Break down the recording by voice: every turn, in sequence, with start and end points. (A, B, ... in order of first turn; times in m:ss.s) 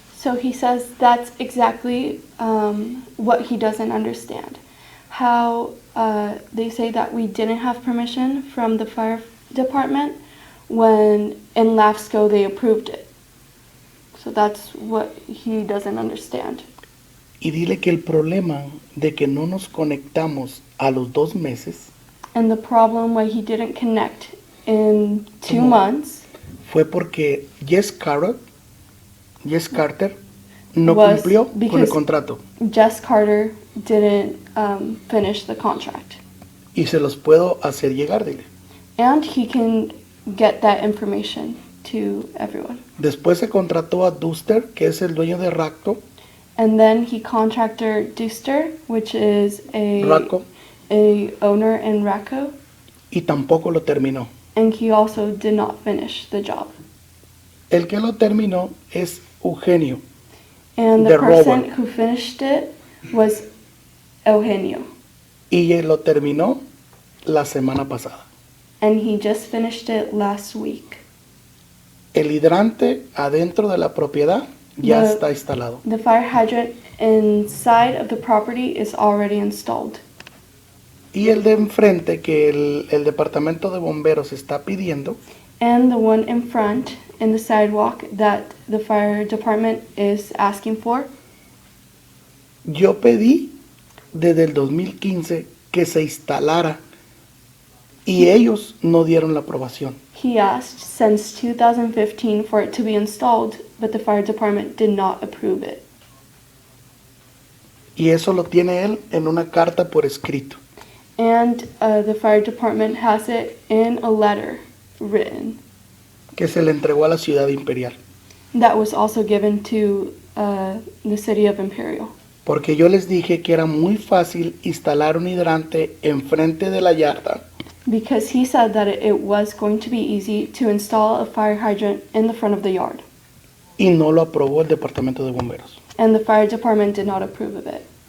0:00.1-0:13.1 A
0:14.2-0:16.7 A
0:17.4-0:21.9 B
0:22.3-0:26.3 A
0:25.5-0:25.8 B
0:26.6-0:28.4 B
0:29.4-0:30.2 B
0:30.8-0:32.4 B
0:30.8-0:32.0 A
0:32.6-0:36.2 A
0:36.8-0:38.5 B
0:39.0-0:42.8 A
0:43.0-0:46.0 B
0:46.6-0:50.4 A
0:50.0-0:50.4 B
0:50.9-0:52.5 A
0:53.1-0:54.3 B
0:54.6-0:56.7 A
0:57.7-1:00.0 B
1:00.8-1:03.5 A
1:01.0-1:01.6 B
1:04.2-1:04.9 A
1:05.5-1:06.6 B
1:07.3-1:08.3 B
1:08.8-1:11.0 A
1:12.1-1:15.8 B
1:14.8-1:15.2 A
1:15.8-1:20.0 A
1:21.1-1:25.2 B
1:25.6-1:31.1 A
1:32.7-1:33.5 B
1:34.1-1:36.8 B
1:38.1-1:40.0 B
1:40.2-1:45.9 A
1:48.0-1:50.6 B
1:51.2-1:55.6 A
1:56.4-1:58.0 B
1:58.5-2:02.1 A
2:02.5-2:07.4 B
2:07.9-2:13.0 A
2:13.8-2:15.8 B
2:16.0-2:17.9 A